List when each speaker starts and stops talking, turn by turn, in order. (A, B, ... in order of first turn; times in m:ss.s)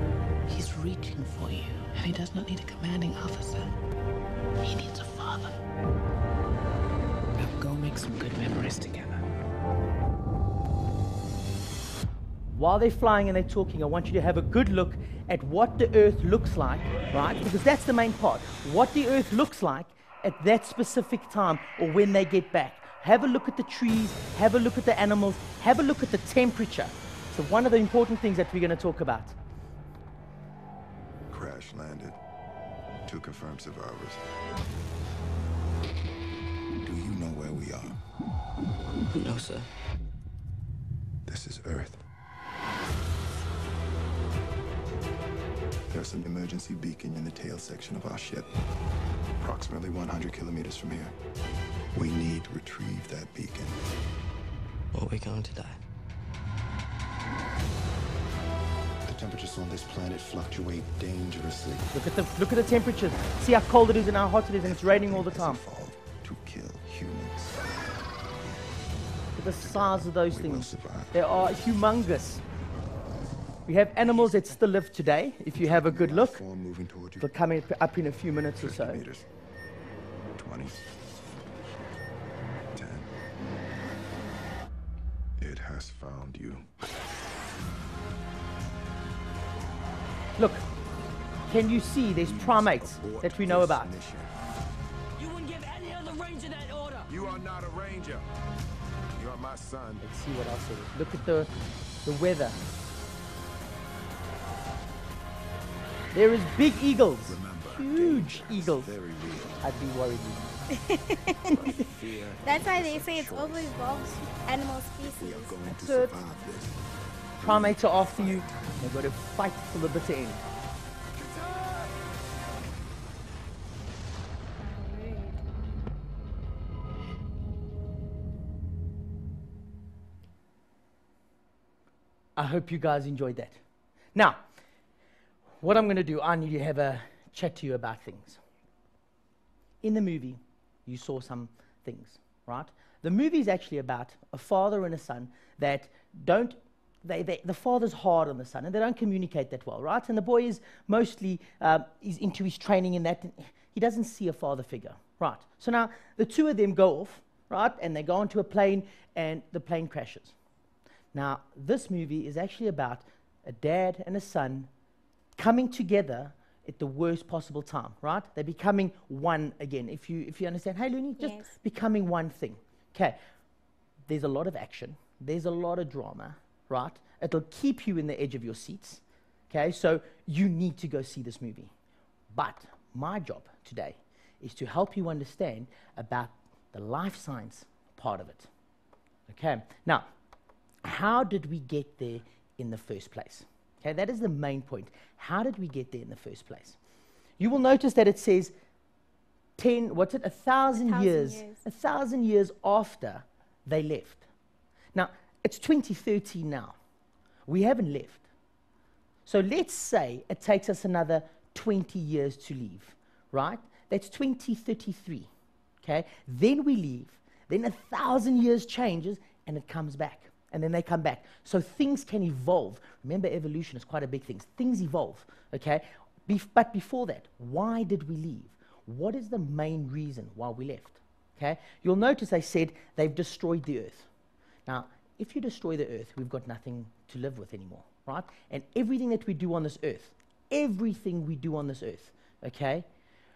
0:00.5-0:03.7 A
0:04.6-0:05.5 A
0:07.4-0:09.2 A
0:12.5-0:29.4 B
0:31.3-0:32.2 C
0:33.1-0:34.2 C
0:36.8-0:38.0 C
0:41.3-0:42.0 C
0:45.9-0:48.5 C
0:49.4-0:51.2 C
0:52.0-0:53.8 C
0:59.1-1:01.9 C
1:01.9-1:05.6 B
1:04.6-1:07.7 C
1:09.4-1:12.4 B
1:09.6-1:11.2 C
1:13.7-1:16.4 B
1:14.2-1:14.5 C
1:15.5-1:17.3 C
1:17.2-1:19.0 B
1:18.6-1:19.2 C
1:20.3-1:21.9 C
1:22.7-1:23.1 C
1:25.4-1:26.7 C
1:30.4-1:30.6 B
1:31.5-1:34.0 B
1:32.2-1:34.3 C
1:35.2-1:37.1 D
1:37.1-1:38.2 C
1:39.2-1:40.0 C
1:40.0-1:41.5 B
1:42.0-1:42.6 B
1:46.1-1:48.9 B
1:47.2-1:49.7 C
1:49.6-1:50.5 B
1:50.9-1:51.8 E
1:51.5-1:54.0 C
1:52.4-1:55.6 E
1:55.0-1:56.8 C
1:55.7-1:56.2 B
1:57.4-1:58.7 C
1:57.4-2:00.4 B
2:01.2-2:01.9 C
2:04.6-2:05.4 E
2:12.4-2:13.6 B
2:14.1-2:14.4 B
2:15.6-2:18.4 B
2:19.8-2:40.4 B
2:41.1-2:44.7 B
2:45.4-2:53.2 B
2:51.2-2:51.5 E
2:54.1-3:01.7 B
3:02.3-3:08.5 B
3:09.3-3:10.1 B
3:10.8-3:16.8 B
3:17.4-3:18.5 B
3:19.6-3:24.2 B
3:20.7-3:21.6 E
3:24.9-3:26.8 B
3:27.5-3:28.2 B
3:29.3-3:35.3 B
3:35.8-3:54.1 B
3:54.7-4:02.9 B